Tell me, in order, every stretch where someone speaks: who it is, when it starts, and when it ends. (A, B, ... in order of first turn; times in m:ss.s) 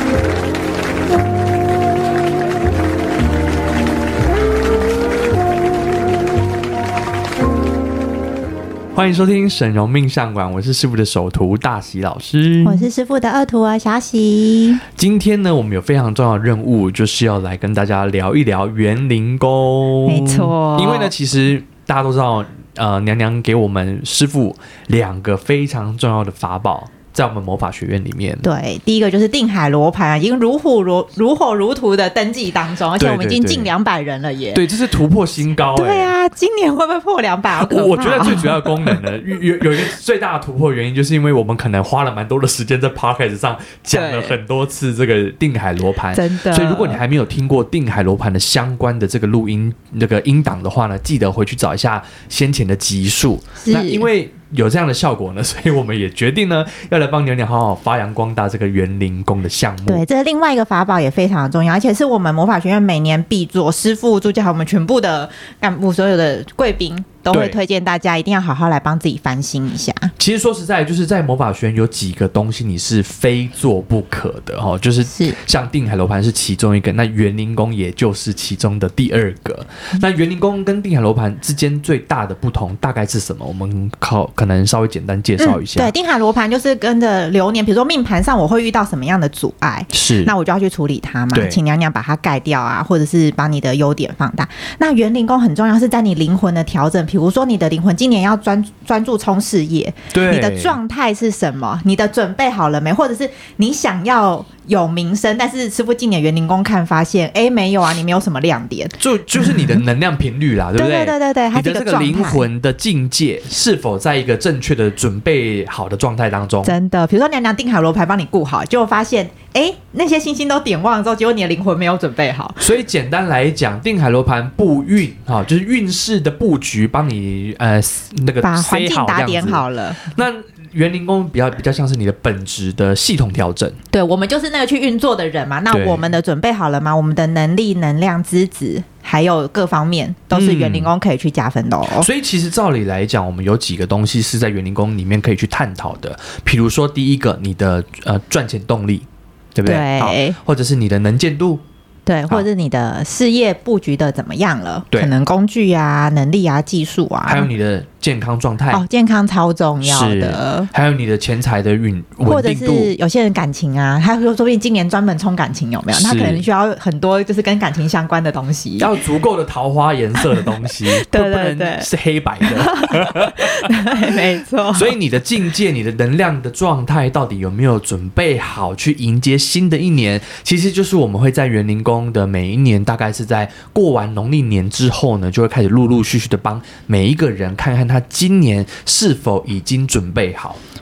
0:08.9-0:12.9 A
0:12.6-0:14.8 B
0:15.0-0:28.4 A
0:20.0-0:21.1 B
0:28.4-0:34.6 B
0:33.0-0:33.7 A
0:34.5-0:36.1 A
0:35.7-0:39.0 B
0:37.5-1:00.0 A
0:43.9-0:44.4 B
0:46.1-0:47.0 B
0:53.6-0:54.1 B
0:59.9-1:10.1 B
1:07.3-1:07.6 A
1:10.2-1:25.9 A
1:15.1-1:15.4 B
1:25.4-1:49.8 B
1:29.9-1:30.3 A
1:31.3-1:31.6 A
1:40.1-1:40.8 A
1:49.0-1:56.7 A
1:50.8-1:52.4 B
1:56.6-2:02.6 B
2:02.6-2:13.8 A
2:08.4-2:10.1 B
2:13.9-2:22.1 B
2:15.7-2:16.1 A
2:20.3-2:20.9 A
2:21.9-2:31.6 A
2:29.6-2:30.4 B
2:32.0-2:37.5 B
2:37.2-2:38.8 A
2:38.7-2:40.7 B
2:39.8-2:42.9 A
2:42.2-2:48.9 B
2:45.9-2:46.4 A
2:48.8-2:54.1 A
2:50.2-2:51.9 B
2:52.4-2:54.9 B
2:54.7-3:10.6 A